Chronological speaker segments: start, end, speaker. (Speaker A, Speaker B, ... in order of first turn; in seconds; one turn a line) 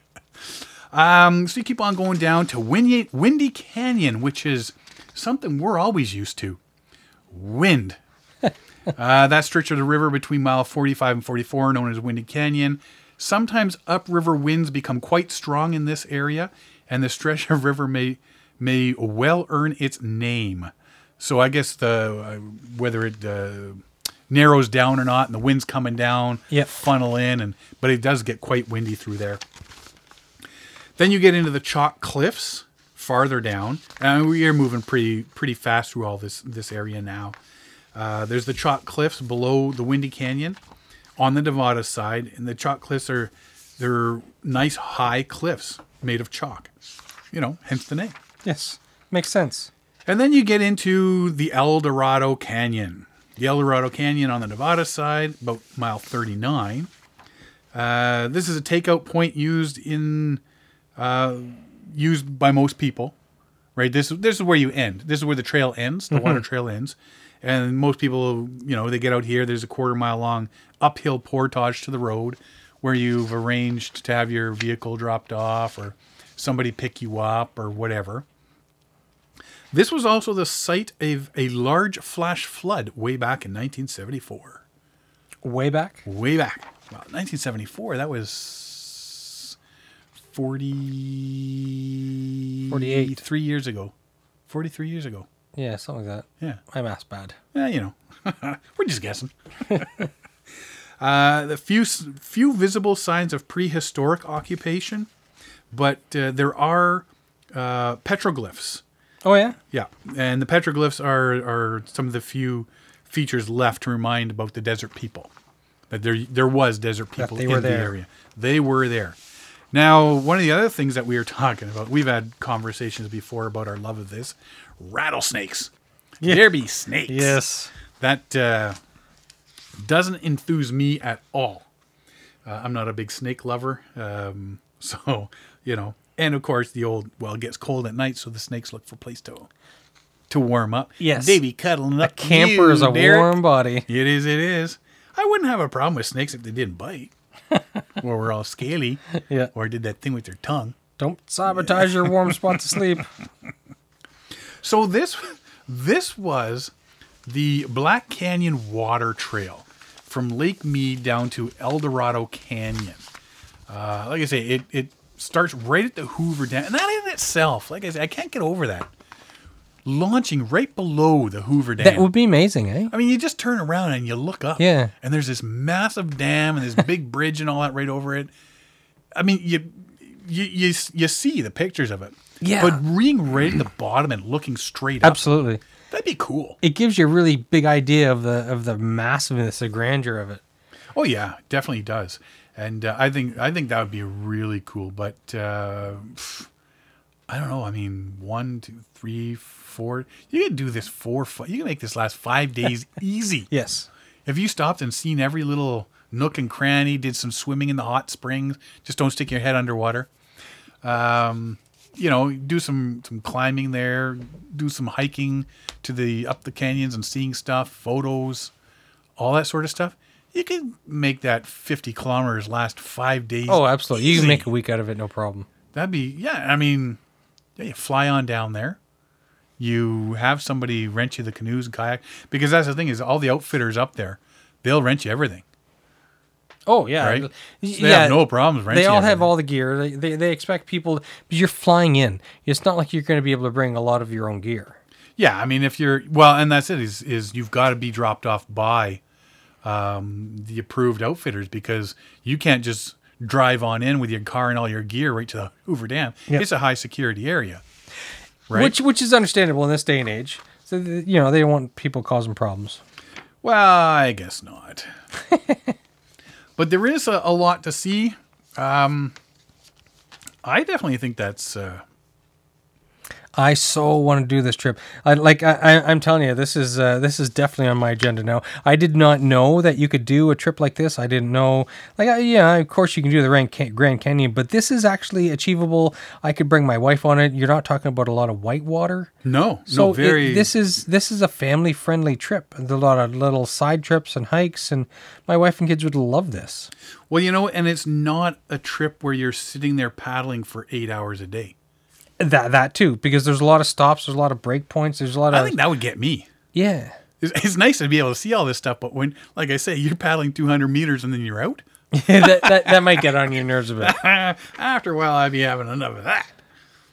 Speaker A: 0.4-6.6
Speaker A: 7.3-8.0
Speaker A: 9.0-29.4
Speaker A: 31.0-37.4
Speaker A: 38.0-40.6
Speaker A: 41.2-46.7
Speaker A: 47.3-48.1
Speaker B: 48.5-49.7
Speaker A: 50.1-56.9
Speaker A: 57.7-60.4
Speaker A: 61.0-63.2
Speaker A: 63.8-78.3
Speaker B: 66.1-66.4
Speaker A: 79.7-84.6
Speaker B: 85.4-86.0
Speaker A: 86.1-89.6
Speaker A: 90.2-93.9
Speaker B: 92.7-93.2
Speaker A: 94.5-95.3
Speaker B: 95.6-97.4
Speaker A: 97.5-105.1
Speaker B: 99.7-100.0
Speaker A: 105.7-108.8
Speaker B: 109.2-109.6
Speaker A: 109.7-115.3
Speaker A: 115.9-119.2
Speaker B: 117.2-117.9
Speaker A: 119.7-125.7
Speaker A: 126.2-127.4
Speaker B: 127.1-127.7
Speaker A: 128.0-128.8
Speaker A: 129.8-131.7
Speaker A: 132.4-139.5
Speaker A: 140.3-147.1
Speaker B: 141.0-141.4
Speaker B: 142.0-143.9
Speaker A: 148.0-150.8
Speaker B: 149.1-149.5
Speaker B: 151.0-153.1
Speaker A: 151.5-153.0
Speaker A: 154.6-156.7
Speaker A: 157.3-163.1
Speaker A: 163.7-168.9
Speaker A: 169.8-172.1
Speaker B: 171.8-172.9
Speaker A: 172.9-178.3
Speaker B: 174.6-174.9
Speaker A: 179.2-185.2
Speaker B: 182.4-182.8
Speaker B: 185.0-185.6
Speaker A: 185.9-186.6
Speaker B: 186.6-190.4
Speaker A: 190.9-196.5
Speaker A: 197.3-203.5
Speaker B: 203.5-203.9
Speaker A: 204.3-210.1
Speaker A: 210.8-218.5
Speaker A: 219.2-224.5
Speaker B: 223.5-225.5
Speaker A: 225.7-227.0
Speaker A: 227.6-228.8
Speaker A: 229.6-235.4
Speaker B: 236.7-244.8
Speaker A: 237.0-239.3
Speaker A: 245.2-249.0
Speaker A: 249.6-257.6
Speaker A: 258.5-258.8
Speaker B: 258.5-262.8
Speaker A: 263.4-264.9
Speaker B: 265.3-265.8
Speaker A: 266.6-269.2
Speaker A: 270.4-271.8
Speaker B: 273.4-289.1
Speaker A: 289.2-290.5
Speaker B: 289.7-296.7
Speaker A: 297.1-301.6
Speaker B: 302.2-305.6
Speaker A: 305.3-306.3
Speaker B: 306.5-306.9
Speaker A: 307.2-311.6
Speaker B: 311.9-314.0
Speaker A: 312.2-313.1
Speaker A: 313.8-316.4